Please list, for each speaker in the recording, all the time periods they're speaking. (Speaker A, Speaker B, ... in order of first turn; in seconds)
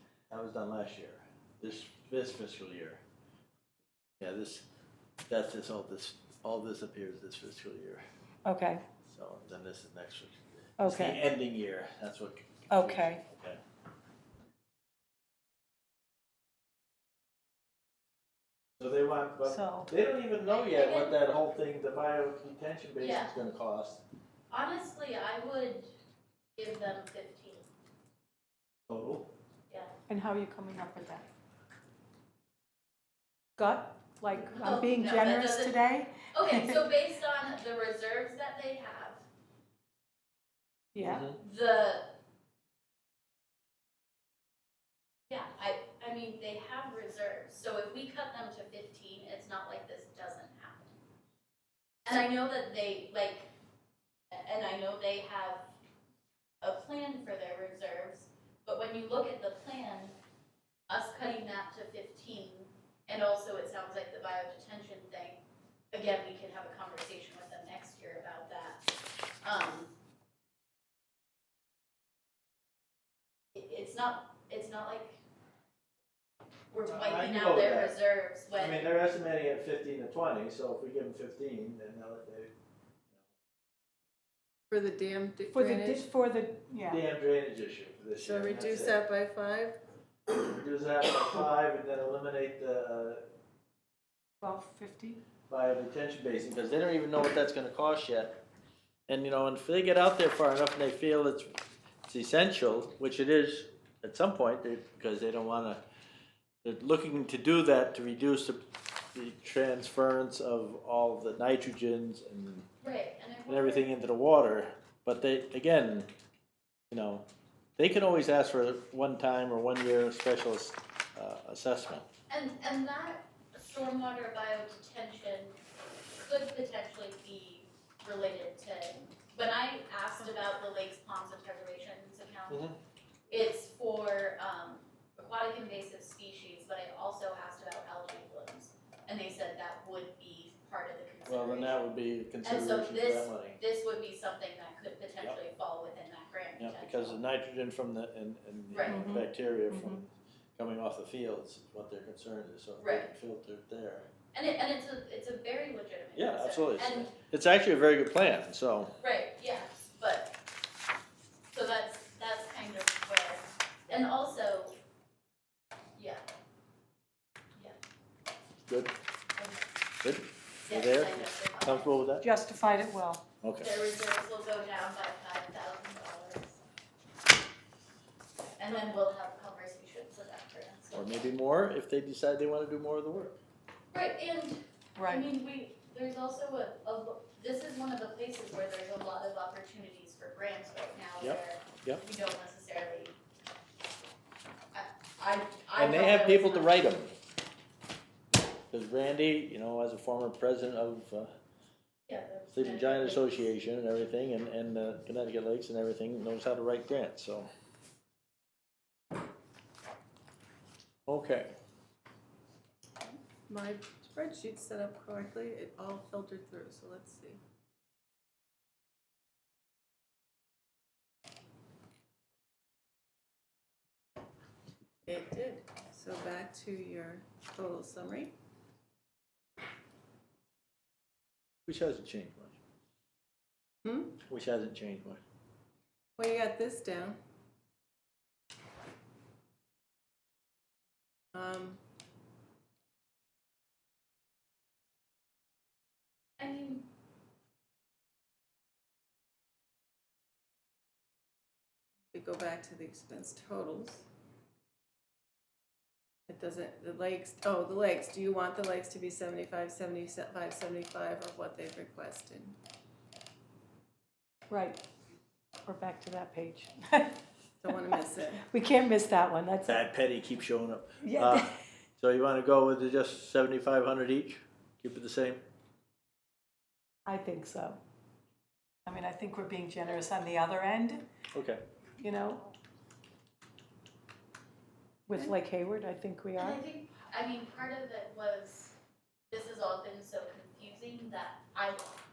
Speaker A: 0.3-3.0, 4.2-4.7, 5.3-8.0, 9.1-13.6, 18.8-24.0, 28.9-29.3, 41.0-41.4, 76.8-78.0, 78.5-82.5, 86.8-89.0, 90.3-93.2, 95.5-98.4, 99.1-101.5, 102.0-105.8, 106.6-112.7, 113.5-116.1, 116.9-117.2, 117.8-122.0, 132.5-132.8, 141.2-143.6, 146.6-150.1, 150.6-154.1, 156.2-158.9, 168.7-168.9, 170.0-172.2, 173.4-173.7, 180.9-183.4, 191.2-192.0, 195.8-197.2, 198.7-201.3, 202.5-207.5, 211.1-211.5, 231.7-232.6, 234.2-235.2, 269.6-275.4, 281.3-281.6
Speaker B: 8.4-8.8, 10.8-11.2, 12.7-13.2, 19.4-19.9, 30.1-31.3, 33.6-36.9, 40.9-41.3, 85.5-87.0, 94.4-95.2, 148.9-150.1, 172.2-173.2, 185.0-185.2, 264.5-264.8, 265.6-267.2, 267.9-269.8, 271.0-271.6, 277.1-277.8, 278.9-281.0, 282.0-282.4, 285.1-286.6
Speaker C: 20.5-21.2, 23.0-23.3, 24.5-25.9, 26.6-27.7, 34.5-35.8, 36.3-39.2, 41.3-42.1, 45.3-50.9, 52.0-53.5, 54.3-55.6, 56.6-60.1, 60.9-68.8, 69.4-69.9, 73.5-75.2, 76.7-78.8, 112.8-113.9, 122.3-125.5, 126.2-132.7, 133.3-141.9, 142.4-147.2, 148.7-149.2, 152.8-153.1, 154.3-157.1, 159.0-160.4, 161.5-164.8, 166.0-166.2, 169.4-169.7, 170.7-172.0, 173.6-176.6, 178.6-181.2, 183.9-193.2, 194.7-196.8, 202.1-203.3, 246.4-246.9, 286.4-288.7, 289.3-291.8
Speaker D: 84.7-86.1, 88.2-89.8, 213.0-217.4, 225.1-228.3, 233.8-234.2, 236.2-237.2, 241.3-241.8, 252.1-254.0, 256.3-262.6, 267.6-268.4